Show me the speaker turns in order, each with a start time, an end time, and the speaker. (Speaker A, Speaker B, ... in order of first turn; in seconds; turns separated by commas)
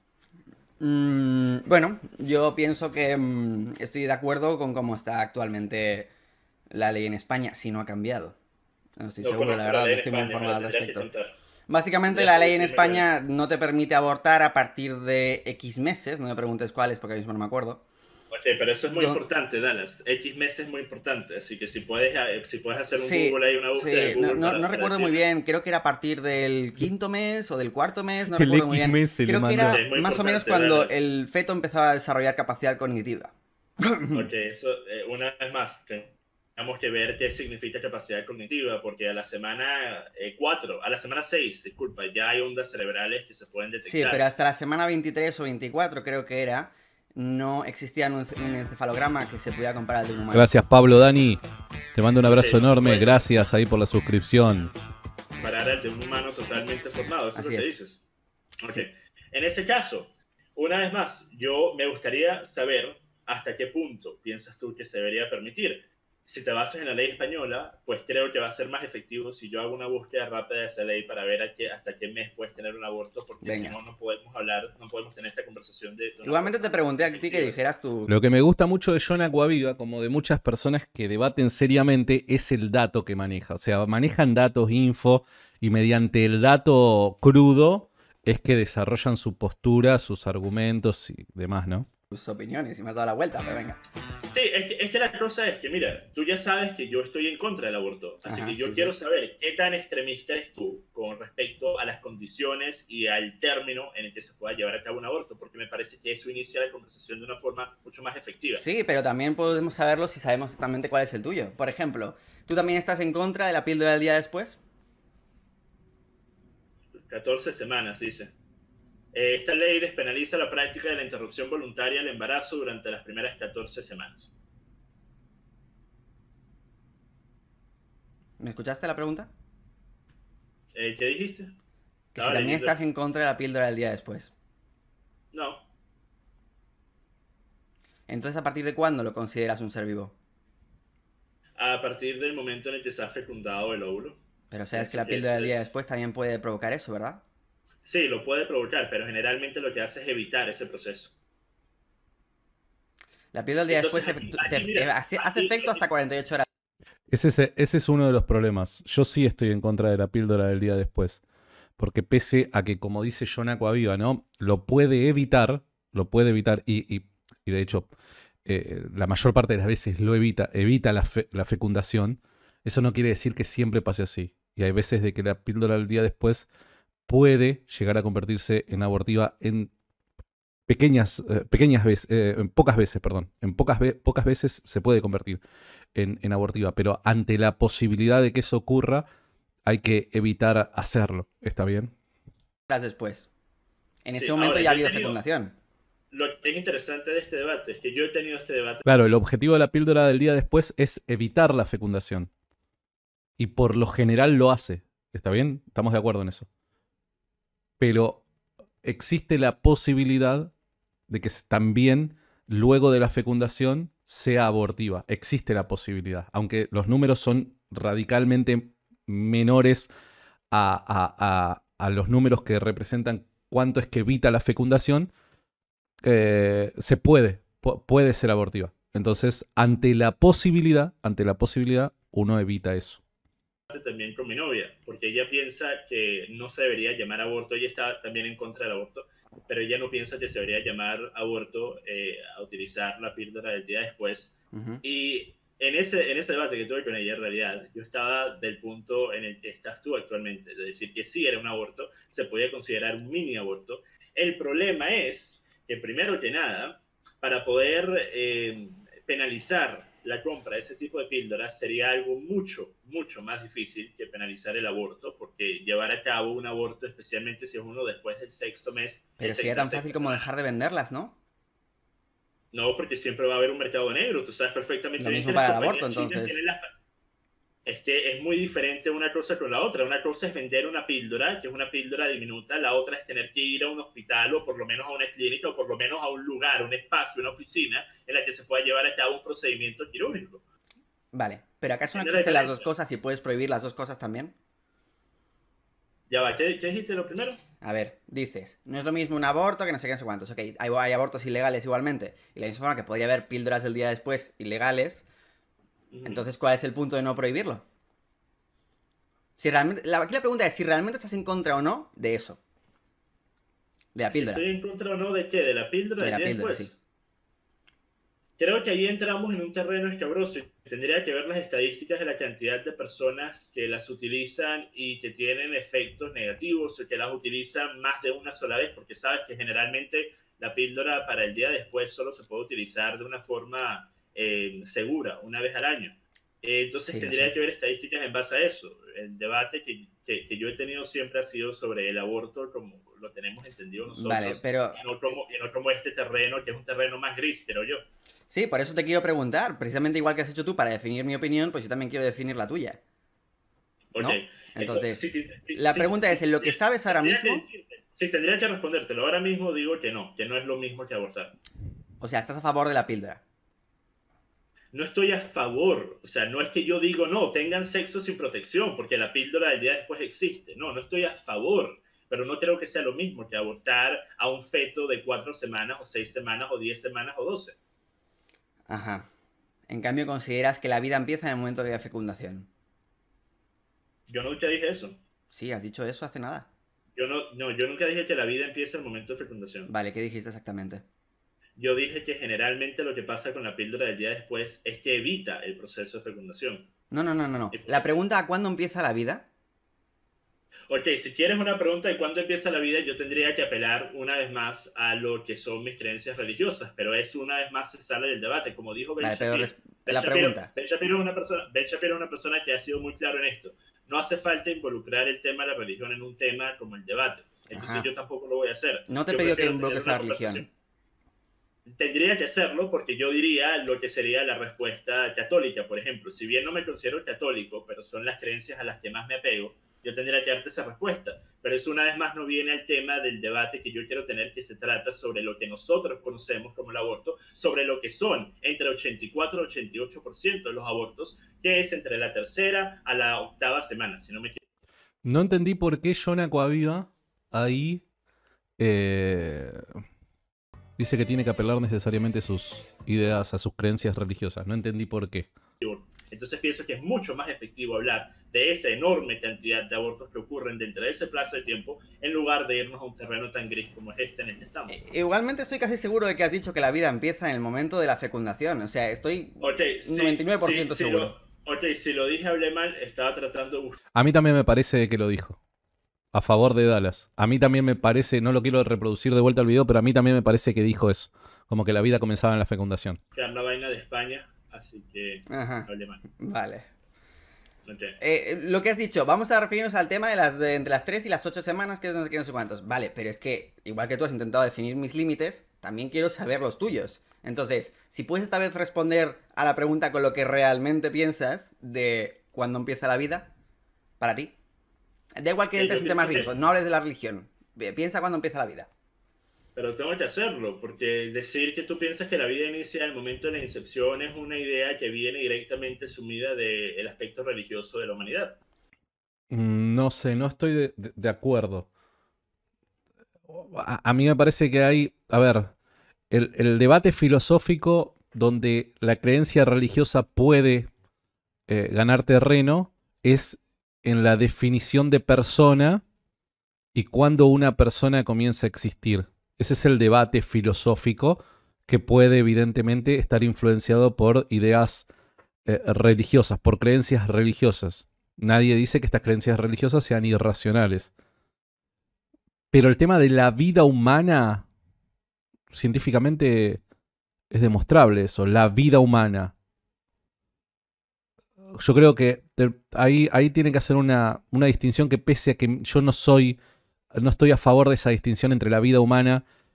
Speaker A: 0.8-6.1, Speaker A: 6.7-8.3, Speaker A: 9.0-11.1, Speaker B: 9.2-11.3, Speaker A: 11.7-17.8, Speaker B: 12.1-13.1, Speaker B: 18.3-25.2, Speaker A: 18.9-19.2, Speaker A: 22.9-34.3, Speaker C: 28.3-29.8, Speaker B: 29.6-31.1, Speaker B: 34.1-44.2, Speaker A: 43.9-50.5, Speaker C: 50.3-51.4, Speaker C: 51.9-54.7, Speaker B: 52.3-53.2, Speaker B: 55.4-58.0, Speaker A: 57.4-57.7, Speaker B: 58.6-77.5, Speaker A: 73.4-73.8, Speaker A: 76.2-78.1, Speaker C: 78.1-91.9, Speaker A: 92.1-93.8, Speaker B: 94.2-108.6, Speaker A: 98.2-98.9, Speaker A: 108.5-114.6, Speaker B: 117.0-118.3, Speaker B: 119.1-124.3, Speaker A: 128.4-129.3, Speaker B: 130.7-131.5, Speaker A: 132.1-134.3, Speaker B: 132.2-132.8, Speaker B: 135.3-135.6, Speaker A: 138.1-140.1, Speaker B: 141.6-144.2, Speaker A: 144.5-147.2, Speaker B: 144.7-145.7, Speaker B: 147.8-151.1, Speaker A: 153.3-156.4, Speaker B: 153.7-155.8, Speaker C: 157.1-161.2, Speaker C: 161.8-167.9, Speaker C: 168.4-176.5, Speaker C: 177.1-179.7, Speaker C: 180.7-185.4, Speaker C: 185.9-189.1, Speaker C: 189.7-191.9, Speaker A: 192.7-193.3, Speaker A: 194.0-195.6, Speaker B: 194.1-195.2, Speaker B: 196.1-198.8, Speaker C: 198.8-202.3, Speaker C: 203.4-206.5, Speaker C: 207.8-208.2, Speaker C: 208.8-210.5, Speaker C: 211.1-219.9, Speaker C: 220.5-225.1, Speaker C: 226.0-233.0, Speaker B: 233.7-270.3, Speaker A: 244.5-244.8, Speaker A: 269.2-271.2, Speaker B: 272.5-276.7, Speaker A: 275.0-276.4, Speaker B: 277.6-290.4, Speaker A: 291.1-294.3, Speaker B: 291.9-292.7, Speaker B: 296.1-297.4, Speaker A: 297.6-305.0, Speaker B: 305.9-306.3, Speaker A: 306.0-307.6, Speaker A: 309.4-312.4, Speaker A: 313.9-314.4, Speaker B: 314.1-316.7, Speaker A: 316.0-316.7, Speaker B: 318.4-347.8, Speaker A: 336.9-337.3, Speaker A: 343.9-344.8, Speaker A: 348.3-352.8, Speaker B: 353.9-361.3, Speaker A: 354.0-357.4, Speaker A: 362.0-363.2, Speaker B: 364.7-377.6, Speaker A: 378.7-379.1, Speaker A: 379.7-382.5, Speaker B: 384.1-385.0, Speaker A: 385.3-386.5, Speaker B: 386.9-389.7, Speaker A: 389.7-390.8, Speaker B: 391.6-396.7, Speaker A: 396.9-399.3, Speaker B: 397.5-398.0, Speaker B: 400.7-420.4, Speaker A: 409.0-410.5, Speaker A: 417.5-417.9, Speaker A: 418.9-420.5, Speaker B: 421.6-444.4, Speaker C: 445.0-447.8, Speaker C: 448.6-449.6, Speaker C: 450.8-455.3, Speaker B: 455.6-464.8, Speaker A: 464.7-471.1, Speaker B: 469.4-473.8, Speaker C: 473.9-475.4, Speaker C: 476.1-483.0, Speaker B: 483.1-486.0, Speaker A: 485.3-486.7, Speaker B: 487.6-488.0, Speaker A: 488.0-503.3, Speaker A: 504.0-504.3, Speaker A: 505.1-508.7, Speaker B: 505.6-506.3, Speaker B: 509.6-518.4, Speaker C: 519.3-521.7, Speaker C: 523.3-525.5, Speaker C: 526.1-530.7, Speaker C: 531.5-535.8, Speaker C: 536.7-544.9, Speaker C: 545.5-550.9, Speaker C: 552.5-554.5, Speaker C: 555.5-556.6, Speaker C: 557.3-559.3, Speaker C: 561.6-566.4, Speaker C: 566.9-569.2